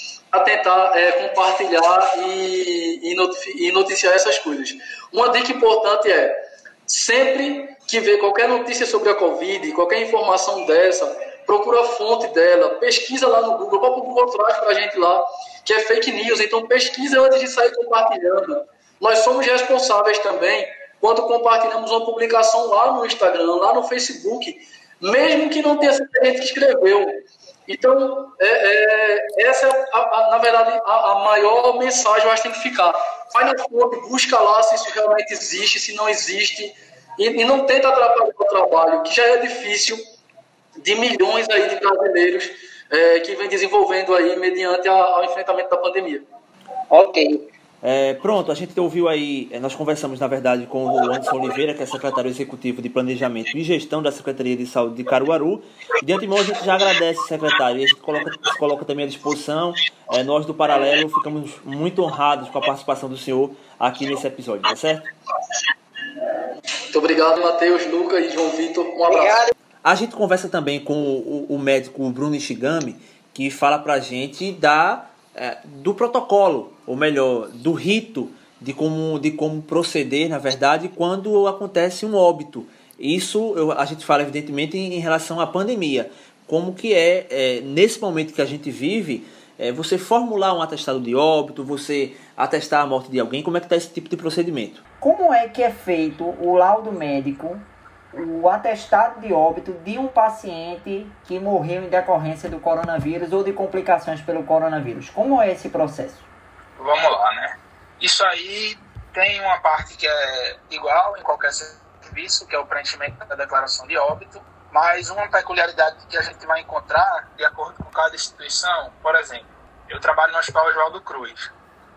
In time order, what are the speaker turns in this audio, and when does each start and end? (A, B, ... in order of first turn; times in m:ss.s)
0:00.3-0:40.0 A
0:40.8-0:46.2 A
0:46.9-0:47.4 B
0:47.8-1:05.1 C
1:06.9-1:09.4 A
1:09.8-1:34.8 C
1:35.0-1:46.3 B
1:46.8-2:01.5 D